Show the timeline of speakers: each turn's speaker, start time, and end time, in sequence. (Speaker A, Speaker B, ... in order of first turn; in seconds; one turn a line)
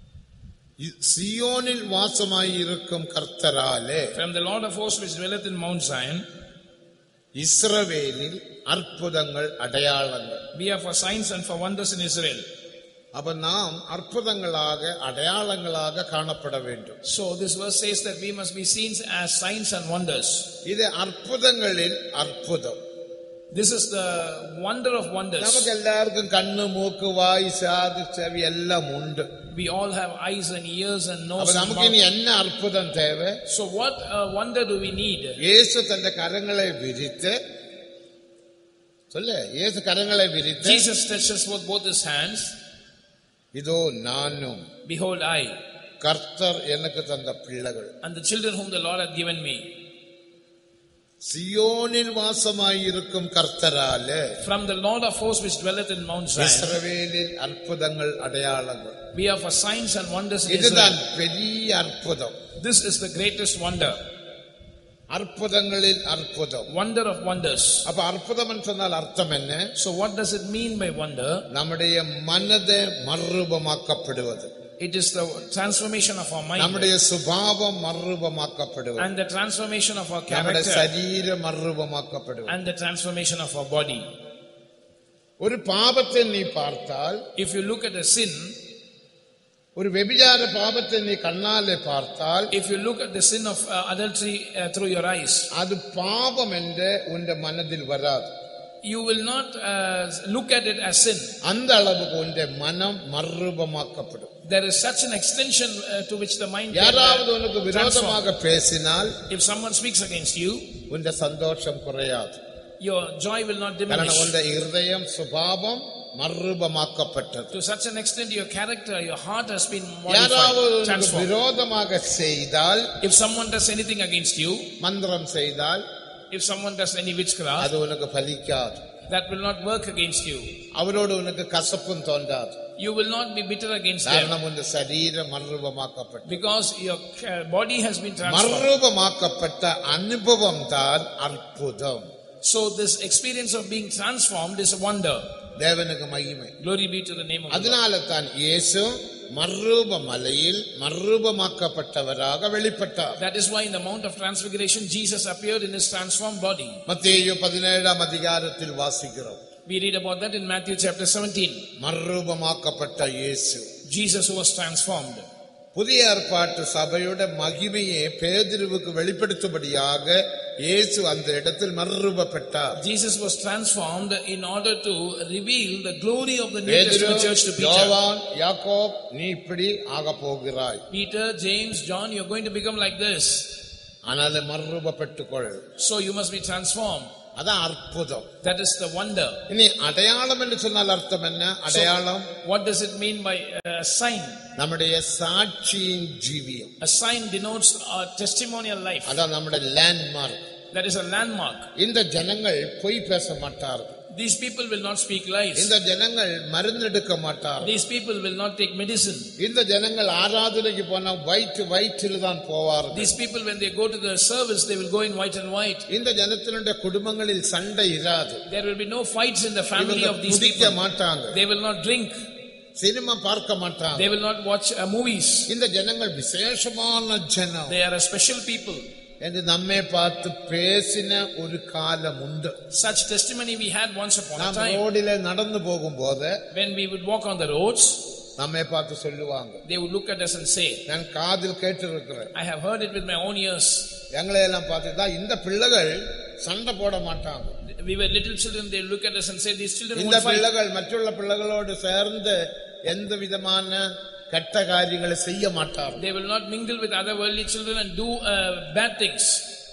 Speaker A: 0.8-4.1
Speaker B: 4.2-6.3
Speaker A: 7.4-10.4
Speaker B: 10.5-12.4
Speaker A: 13.1-17.0
Speaker B: 17.0-20.5
Speaker A: 20.6-22.8
Speaker B: 23.5-25.7
Speaker A: 25.4-29.3
Speaker B: 29.5-32.0
Speaker A: 31.4-33.4
Speaker B: 33.5-35.4
Speaker A: 35.4-37.4
Speaker A: 39.1-40.8
Speaker B: 40.6-42.5
Speaker A: 43.5-44.6
Speaker B: 44.9-45.6
Speaker A: 46.0-47.9
Speaker B: 48.0-49.7
Speaker A: 51.2-54.3
Speaker B: 54.4-56.8
Speaker A: 56.4-59.0
Speaker B: 59.1-61.0
Speaker A: 60.5-62.4
Speaker B: 62.6-64.0
Speaker A: 65.1-66.7
Speaker B: 66.7-67.9
Speaker A: 67.9-69.7
Speaker B: 69.8-71.4
Speaker A: 71.5-74.5
Speaker B: 74.8-76.9
Speaker A: 76.6-79.1
Speaker B: 79.0-80.9
Speaker A: 80.3-82.5
Speaker B: 82.5-84.1
Speaker A: 85.4-87.2
Speaker B: 87.4-88.6
Speaker A: 89.8-92.5
Speaker B: 92.5-95.5
Speaker A: 95.5-98.3
Speaker B: 98.8-101.4
Speaker A: 101.4-104.3
Speaker B: 104.4-108.2
Speaker A: 106.7-109.1
Speaker B: 109.3-110.8
Speaker A: 110.9-112.4
Speaker B: 112.8-114.3
Speaker A: 113.9-117.5
Speaker B: 117.5-121.3
Speaker A: 120.1-122.9
Speaker B: 123.0-124.7
Speaker A: 124.8-125.8
Speaker B: 126.3-127.7
Speaker A: 127.6-128.8
Speaker B: 129.1-130.6
Speaker A: 130.8-132.6
Speaker B: 132.8-134.3
Speaker A: 134.1-136.4
Speaker B: 136.3-138.7
Speaker A: 138.2-142.1
Speaker B: 142.4-145.3
Speaker A: 145.6-146.5
Speaker B: 146.6-147.8
Speaker A: 147.5-153.2
Speaker B: 153.2-156.8
Speaker A: 156.9-159.4
Speaker B: 159.7-161.7
Speaker A: 161.8-163.7
Speaker B: 163.8-165.3
Speaker A: 165.8-172.8
Speaker B: 172.8-178.0
Speaker A: 176.7-180.8
Speaker B: 180.9-183.6
Speaker A: 184.1-185.6
Speaker B: 185.8-187.1
Speaker A: 187.4-188.3
Speaker B: 188.4-189.4
Speaker A: 189.5-192.3
Speaker B: 191.7-194.4
Speaker A: 194.6-196.7
Speaker B: 196.8-199.2
Speaker A: 199.1-200.4
Speaker B: 200.7-201.7
Speaker A: 201.8-204.0
Speaker B: 204.1-205.7
Speaker A: 205.6-207.7
Speaker B: 207.6-209.3
Speaker A: 209.4-213.1
Speaker B: 212.9-215.9
Speaker A: 215.9-218.4
Speaker B: 218.5-220.8
Speaker A: 219.8-221.4
Speaker B: 221.3-222.2
Speaker A: 222.8-224.1
Speaker B: 223.9-225.5
Speaker A: 225.5-227.8
Speaker B: 227.7-228.9
Speaker A: 229.2-232.6
Speaker B: 232.7-234.8
Speaker A: 234.4-236.4
Speaker B: 236.5-238.0
Speaker A: 238.4-239.6
Speaker B: 239.6-240.8
Speaker A: 240.9-242.3
Speaker B: 242.3-243.9
Speaker A: 244.2-247.5
Speaker B: 247.6-250.5
Speaker A: 249.9-256.0
Speaker B: 256.0-259.4